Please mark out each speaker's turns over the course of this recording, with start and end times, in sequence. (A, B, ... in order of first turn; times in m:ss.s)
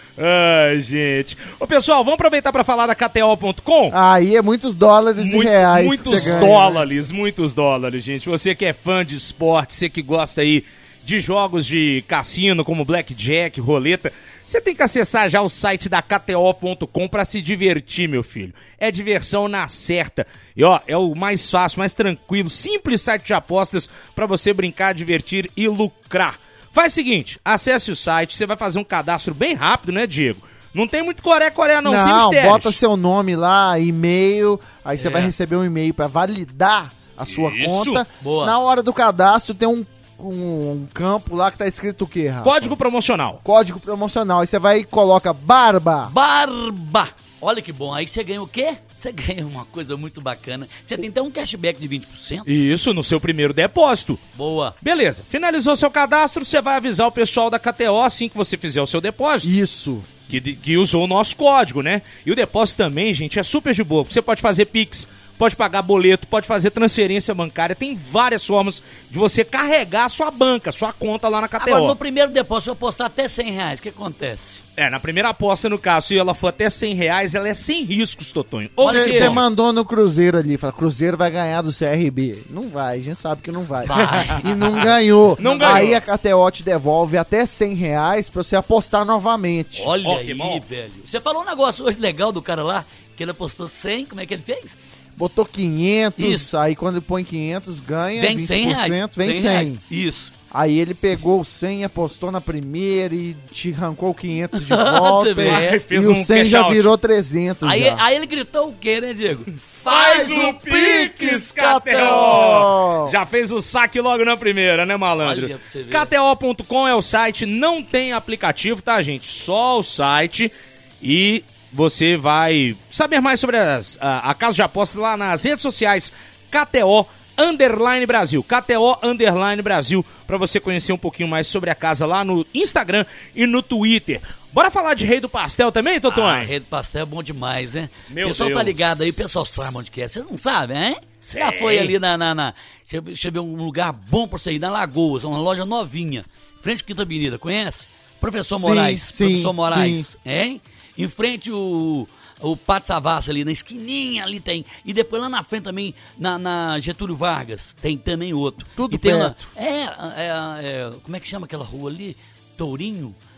0:00.2-0:04.0 A
0:03.9-0:06.8 B
0:05.2-0:32.8 A
0:31.8-0:42.7 B
0:35.0-0:35.3 A
0:37.3-0:38.0 A
0:38.2-0:38.6 C
0:42.4-0:43.4 A
0:43.4-0:46.1 B
0:46.0-0:52.5 C
0:52.5-0:54.2 A
0:54.4-0:54.8 C
0:54.8-0:59.5 A
0:59.4-1:00.1 B
1:00.3-1:12.0 A
1:11.6-1:14.6 C
1:14.8-1:19.4 A
1:18.8-1:19.4 C
1:18.9-1:29.9 B
1:23.8-1:24.5 C
1:24.0-1:24.9 A
1:25.4-1:26.0 A
1:25.4-1:25.9 C
1:29.8-1:34.8 C
1:30.0-1:30.6 A
1:35.2-1:39.8 B
1:36.2-1:36.5 C
1:38.2-1:40.3 C
1:40.5-1:48.0 B
1:44.6-1:45.8 C
1:45.4-1:46.9 A
1:47.6-1:51.0 C
1:49.8-2:16.5 A
1:50.5-1:53.2 B
1:51.6-1:52.6 C
1:55.2-1:56.1 C
2:16.1-2:43.2 C
2:18.1-2:19.4 A
2:21.2-2:22.0 A
2:28.6-2:30.1 B
2:38.8-2:39.5 B